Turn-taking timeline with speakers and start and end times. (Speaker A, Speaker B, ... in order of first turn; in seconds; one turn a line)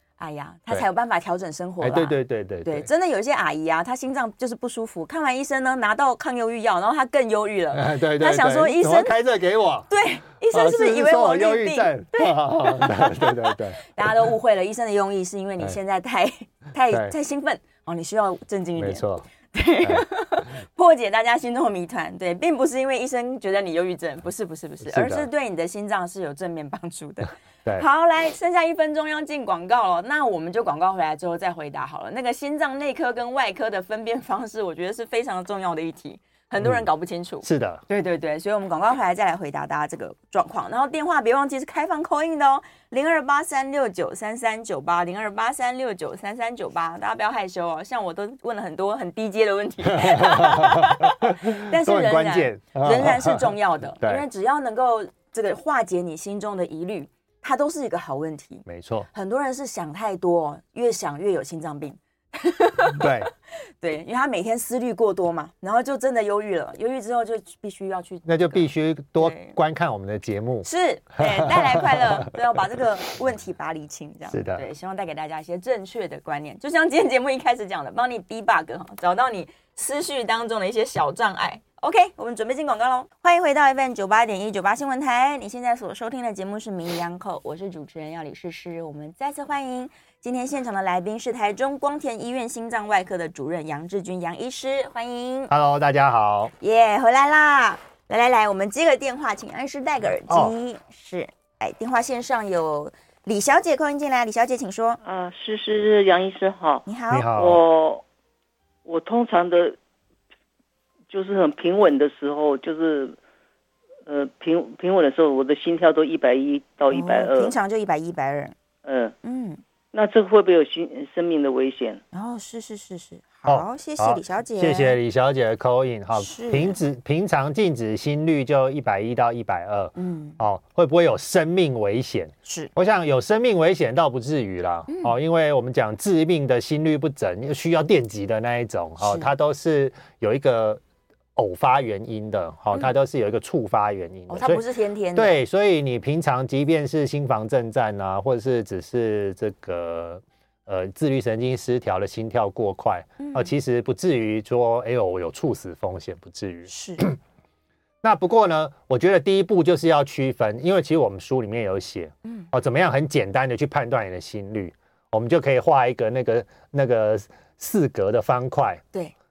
Speaker A: 0.2-9.2
Speaker B: 1.8-2.9
Speaker B: 7.7-9.9
Speaker A: 9.9-63.1
Speaker B: 10.5-13.8
Speaker B: 18.8-19.3
Speaker B: 24.8-25.3
Speaker B: 36.6-36.9
Speaker B: 37.4-37.8
Speaker B: 49.9-54.3
Speaker B: 58.6-59.1
Speaker B: 63.0-63.3
Speaker A: 63.8-69.6
Speaker B: 68.3-70.7
Speaker A: 70.6-95.5
Speaker B: 71.2-72.3
Speaker B: 74.3-74.6
Speaker B: 95.5-96.5
Speaker A: 96.6-105.0
Speaker B: 100.3-100.5
Speaker C: 105.0-108.0
Speaker A: 106.9-107.3
Speaker B: 107.1-107.6
Speaker C: 108.8-109.8
Speaker C: 111.1-113.2
Speaker C: 114.0-117.5
Speaker A: 116.9-118.5
Speaker C: 118.8-119.1
Speaker A: 119.2-119.6
Speaker C: 119.9-122.0
Speaker A: 122.1-125.0
Speaker B: 123.5-140.8
Speaker A: 126.1-126.8
Speaker A: 129.9-130.4
Speaker A: 134.9-135.1
Speaker A: 139.0-139.3
Speaker B: 141.4-144.6
Speaker A: 144.3-145.4
Speaker B: 145.1-157.2
Speaker A: 153.2-153.5
Speaker A: 156.7-157.1
Speaker B: 158.0-168.8